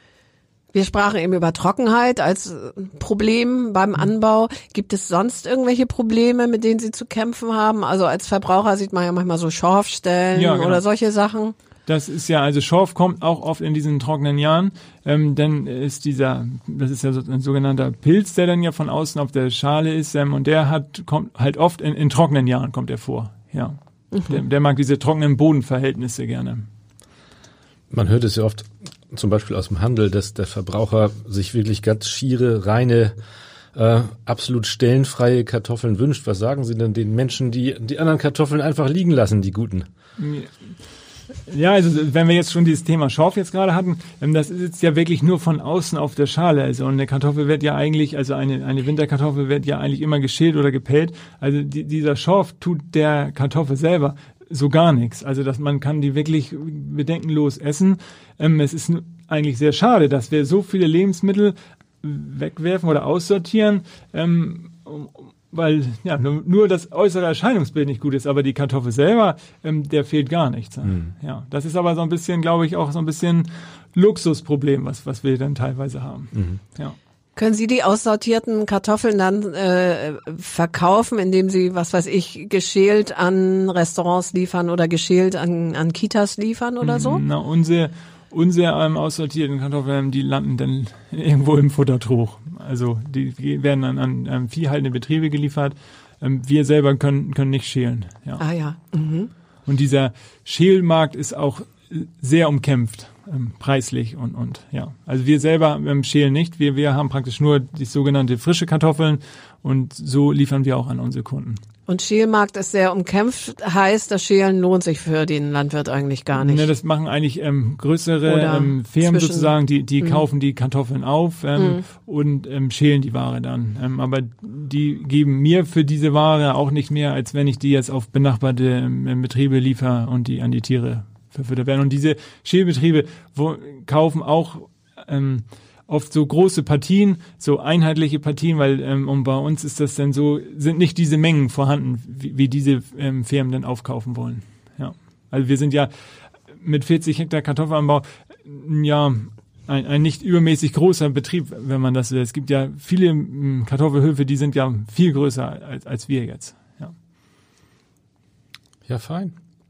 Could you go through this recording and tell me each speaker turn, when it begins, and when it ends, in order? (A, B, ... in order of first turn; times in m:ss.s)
0:00.7-0:11.5 A
0:10.3-0:10.8 B
0:11.9-0:26.6 B
0:27.9-0:33.1 C
0:33.7-0:39.9 C
0:40.2-0:40.7 B
0:41.4-1:17.0 B
1:16.3-1:16.6 C
1:17.4-1:27.2 A
1:26.8-1:38.4 B
1:38.4-1:39.3 A
1:39.7-1:51.6 B
1:51.9-1:56.7 A
1:56.3-2:25.9 B
1:58.2-2:00.2 A
2:01.6-2:01.8 A
2:26.6-2:36.9 B
2:38.9-2:39.3 C